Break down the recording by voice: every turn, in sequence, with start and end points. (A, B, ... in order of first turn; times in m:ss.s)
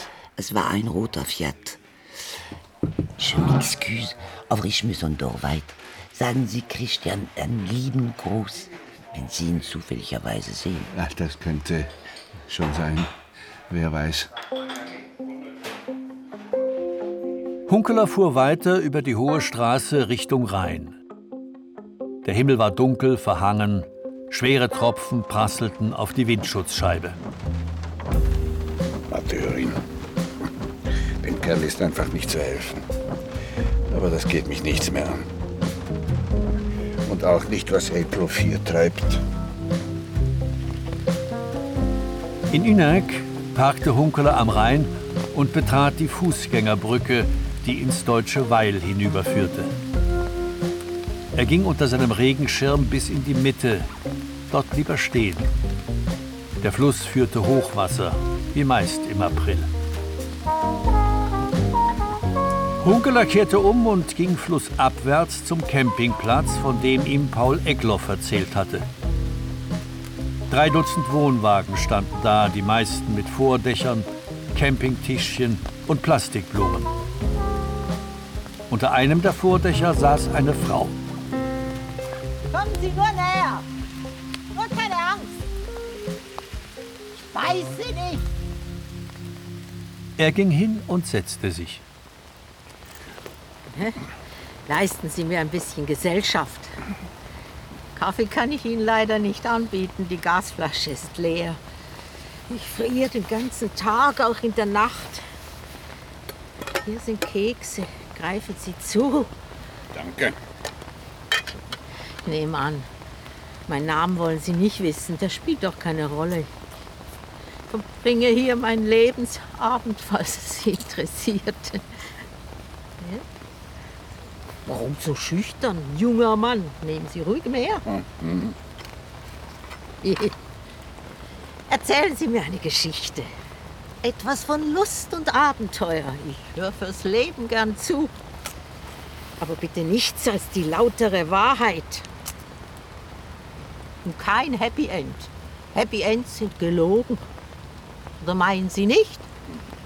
0:00.4-0:01.8 A
0:03.2-0:10.9 A
0:11.0-0:11.9 B
0:12.5-0:13.1 B
0:13.7-0:14.3 B
0:17.7-0:21.0 C
0:22.2-0:27.2 C
0:29.1-0:29.8 B
0:31.2-0:32.8 B
0:33.9-0:35.2 B
0:37.0-0:39.2 B
0:42.5-0:49.7 C
0:51.3-0:53.9 C
0:54.5-0:55.5 C
0:56.6-0:59.7 C
1:02.8-1:08.8 C
1:10.5-1:16.9 C
1:18.7-1:21.0 C
1:22.5-1:23.6 D
1:24.5-1:25.3 D
1:27.3-1:28.2 D
1:30.2-1:31.8 C
1:33.7-1:34.0 D
1:34.7-1:36.8 D
1:37.9-1:41.6 D
1:42.5-1:45.2 D
1:46.8-1:49.3 D
1:49.9-1:50.4 B
1:52.2-1:52.9 D
1:53.7-1:56.5 D
1:57.7-2:01.8 D
2:04.6-2:07.8 D
2:07.9-2:08.5 B
2:10.0-2:10.3 D
2:11.7-2:13.3 D
2:14.0-2:18.1 D
2:19.4-2:22.1 D
2:24.0-2:27.2 D
2:28.2-2:29.3 D